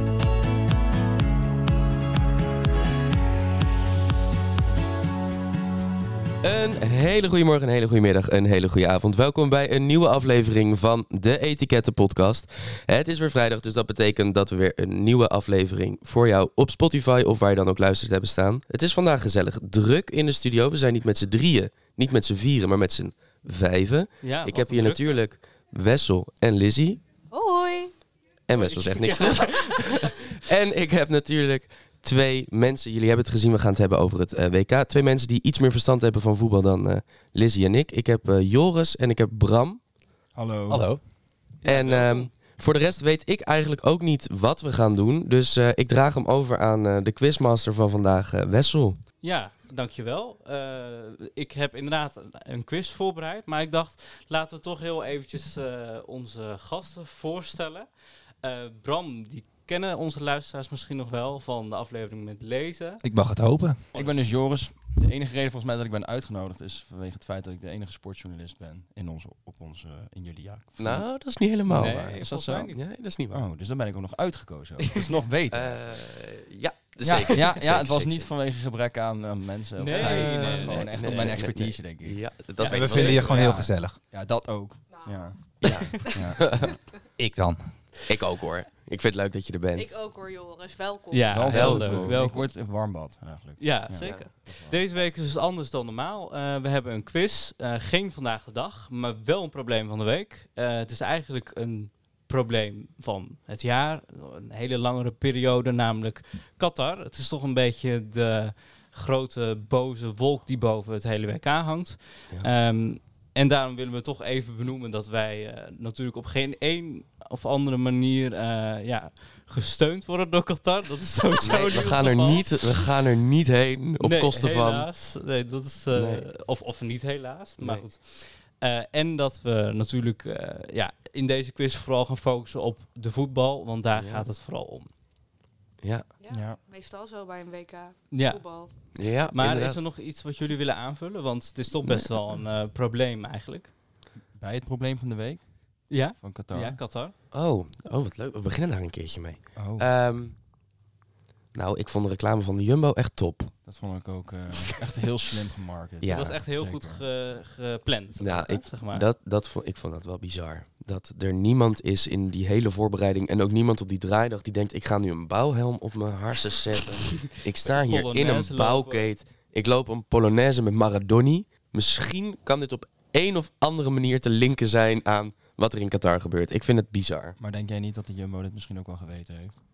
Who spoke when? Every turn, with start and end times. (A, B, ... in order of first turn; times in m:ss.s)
0:06.4-0:27.0 A
0:24.2-0:25.2 B
0:27.3-0:28.1 C
0:28.5-0:39.8 A
0:28.5-0:30.2 B
0:40.3-0:40.9 D
0:40.7-0:41.0 E
0:41.6-0:42.3 B
0:41.6-0:49.0 A
0:49.2-0:57.9 B
0:58.4-1:03.0 B
1:03.0-1:03.9 E
1:03.9-1:04.3 B
1:03.9-1:11.1 D
1:10.8-1:13.5 A
1:11.7-1:12.7 D
1:11.7-1:12.8 B
1:13.3-1:15.8 D
1:15.5-1:18.3 A
1:17.0-1:22.2 D
1:19.8-1:21.4 B
1:19.9-1:23.4 A
1:22.6-1:23.4 B
1:22.6-1:24.0 E
1:23.1-1:26.8 D
1:24.9-1:25.5 C
1:25.6-1:26.6 A
1:27.2-1:27.6 E
1:28.1-1:29.9 A
1:29.7-1:31.5 C
1:31.1-1:32.5 B
1:31.3-1:34.8 D
1:31.5-1:32.2 A
1:33.6-2:02.7 B
1:34.0-1:34.3 A
2:01.4-2:04.9 A
2:04.0-2:14.9 B
2:05.9-2:06.3 A
2:07.6-2:07.8 A
2:13.9-2:14.3 A
2:15.8-2:16.1 A
2:16.2-2:18.9 C
2:16.3-2:16.6 D
2:18.1-2:23.7 B
2:18.9-2:19.8 A
2:21.8-2:22.1 A
2:24.3-2:26.8 D
2:25.9-2:27.1 B
2:27.3-2:30.4 A
2:29.5-2:29.9 D
2:31.5-2:33.6 A
2:33.6-2:37.0 D
2:36.0-2:36.4 A
2:36.0-2:39.0 B
2:38.2-2:57.4 A
2:47.6-2:49.1 B
2:57.4-2:59.6 D